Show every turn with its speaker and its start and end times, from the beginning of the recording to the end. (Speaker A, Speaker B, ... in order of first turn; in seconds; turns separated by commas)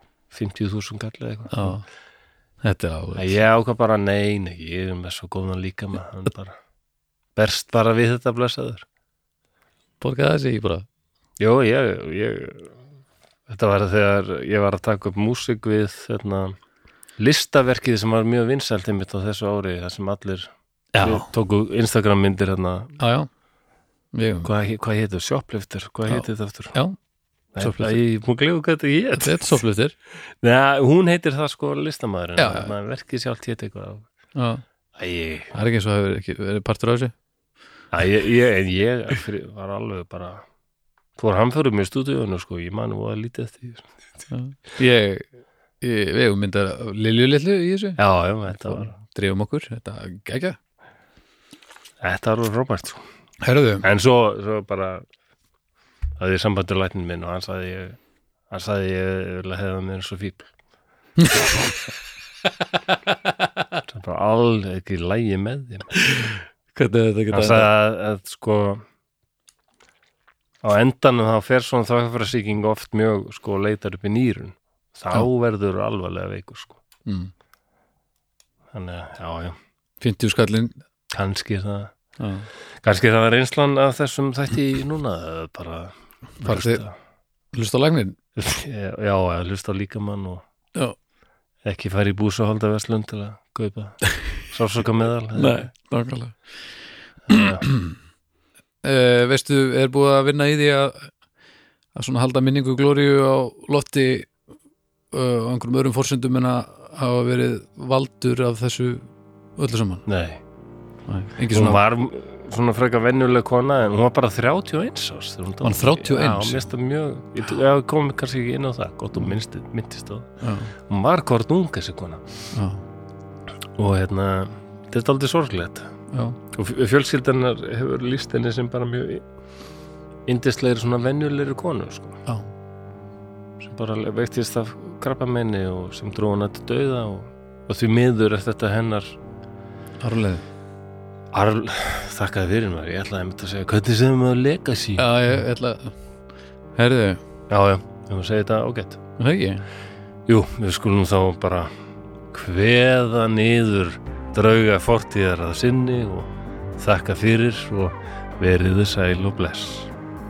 Speaker A: 0.3-1.7, Speaker B: 1.5-1.8, Speaker B: 2.6-3.4, Speaker A: 3.1-6.5, Speaker A: 7.3-8.8, Speaker B: 10.0-10.8, Speaker A: 11.4-12.8, Speaker A: 13.5-16.5, Speaker A: 17.2-22.9, Speaker B: 20.9-21.3, Speaker B: 23.0-23.3, Speaker B: 24.1-24.5, Speaker A: 24.4-26.7, Speaker B: 26.1-26.9, Speaker A: 27.5-29.6, Speaker B: 27.6-28.0, Speaker B: 29.2-29.9, Speaker A: 30.4-34.0, Speaker B: 32.4-32.7, Speaker B: 34.3-34.6, Speaker A: 35.0-35.5, Speaker B: 35.5-37.1, Speaker A: 37.9-40.4, Speaker A: 41.2-43.9, Speaker B: 44.3-45.2, Speaker B: 45.8-50.6, Speaker A: 48.0-48.9, Speaker A: 52.0-53.0, Speaker B: 53.4-53.9, Speaker A: 53.8-55.0, Speaker A: 56.2-58.0, Speaker A: 58.5-60.5, Speaker B: 61.2-61.5, Speaker A: 63.9-65.9, Speaker B: 65.9-67.7, Speaker A: 67.3-68.8, Speaker A: 70.6-76.8, Speaker B: 77.0-77.3, Speaker A: 78.7-79.6, Speaker B: 80.0-80.8, Speaker A: 81.1-81.9, Speaker B: 82.2-82.5, Speaker A: 82.8-86.9, Speaker B: 86.4-86.8, Speaker B: 87.5-88.2, Speaker A: 88.3-90.4, Speaker A: 91.6-95.7, Speaker B: 95.3-96.3, Speaker A: 97.3-97.6, Speaker B: 97.3-98.0, Speaker B: 98.8-101.1, Speaker B: 101.9-104.3, Speaker B: 105.1-110.0, Speaker A: 110.0-110.4, Speaker B: 111.1-111.8, Speaker A: 111.5-122.2, Speaker B: 115.6-116.7, Speaker B: 120.4-120.7, Speaker B: 122.5-122.8, Speaker A: 123.8-125.9, Speaker B: 126.1-126.4, Speaker A: 126.5-129.2, Speaker A: 130.3-132.2, Speaker A: 133.6-139.2, Speaker B: 140.0-140.4, Speaker A: 141.3-145.1, Speaker B: 145.0-145.9, Speaker B: 146.8-147.2, Speaker A: 147.5-149.0, Speaker B: 149.2-149.6, Speaker A: 150.3-151.7, Speaker A: 152.3-159.9